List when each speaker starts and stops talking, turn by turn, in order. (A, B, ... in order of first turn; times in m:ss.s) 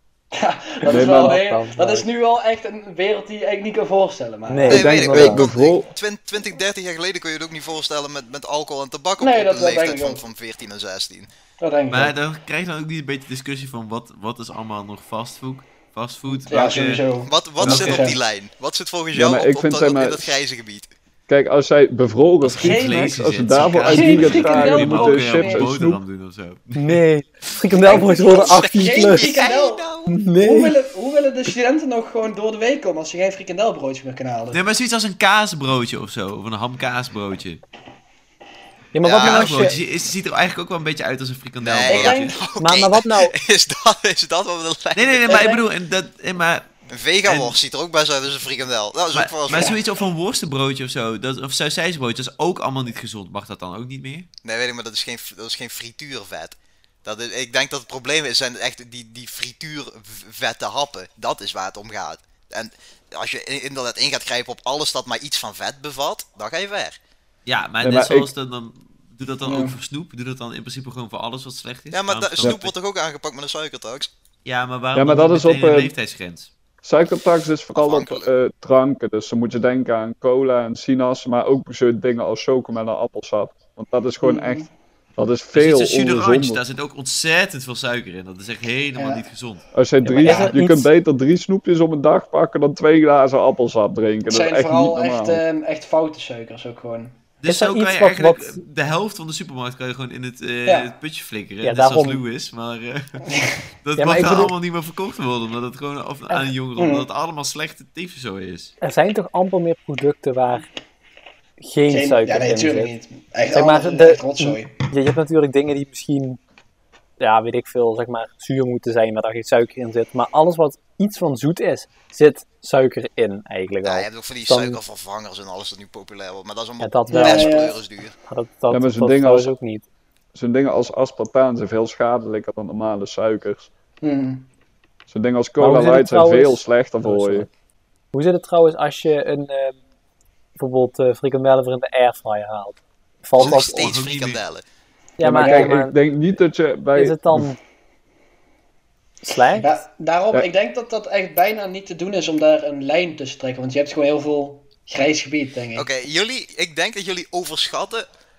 0:00.3-0:04.9 A
0:00.8-0:02.0 B
0:00.9-0:01.4 C
0:04.5-0:05.5 B
0:04.7-0:05.9 C
0:04.7-0:11.3 D
0:09.2-0:10.2 A
0:11.6-0:12.1 A
0:11.9-0:17.0 E
0:16.4-0:18.2 A
0:17.3-0:20.9 D
0:17.6-0:18.1 E
0:19.1-0:20.4 C
0:21.3-0:26.0 C
0:22.4-0:27.0 E
0:22.6-0:23.2 A
0:23.8-0:25.7 A
0:26.8-0:29.5 B
0:27.7-0:30.2 D
0:27.9-0:34.6 A
0:30.1-0:30.8 B
0:34.5-0:37.6 E
0:38.9-0:39.8 B
0:39.0-0:39.8 D
0:39.2-0:42.4 E
0:41.6-0:45.5 D
0:41.8-0:42.4 A
0:42.6-0:43.3 B
0:44.9-0:46.7 E
0:45.3-0:45.6 A
0:46.9-0:49.8 D
0:47.2-0:47.6 E
0:49.1-0:54.3 E
0:54.4-1:07.0 D
1:07.4-1:12.7 E
1:07.8-1:08.3 C
1:09.4-1:09.8 A
1:11.9-1:14.1 D
1:14.4-1:16.5 E
1:14.9-1:15.9 C
1:16.8-1:26.6 C
1:17.8-1:18.3 D
1:24.2-1:24.7 A
1:25.5-1:29.6 E
1:29.0-1:29.2 A
1:29.7-1:35.4 C
1:30.0-1:30.9 B
1:30.2-1:30.5 A
1:34.3-1:37.2 A
1:37.4-1:43.2 E
1:37.4-1:38.6 B
1:40.6-1:40.9 A
1:41.6-1:42.2 B
1:43.3-1:43.6 A
1:43.8-1:48.7 E
1:44.0-1:44.5 B
1:46.4-1:47.1 A
1:48.8-1:50.7 B
1:51.6-1:52.9 B
1:51.9-1:54.8 A
1:53.5-1:56.4 B
1:57.2-2:04.8 B
2:03.8-2:08.2 D
2:06.8-2:07.7 B
2:07.1-2:07.8 A
2:08.2-2:09.8 B
2:08.7-2:09.5 C
2:10.3-2:13.7 C
2:14.0-2:14.5 A
2:15.1-2:17.5 C
2:15.6-2:17.5 B
2:18.1-2:19.8 B
2:20.6-2:23.9 B
2:23.4-2:24.6 D
2:23.4-2:24.4 E
2:25.2-2:25.9 B
2:25.2-2:25.7 A
2:25.2-2:27.5 C
2:26.9-2:27.6 B
2:29.2-2:29.7 B
2:29.5-2:35.9 A
2:35.8-2:38.0 D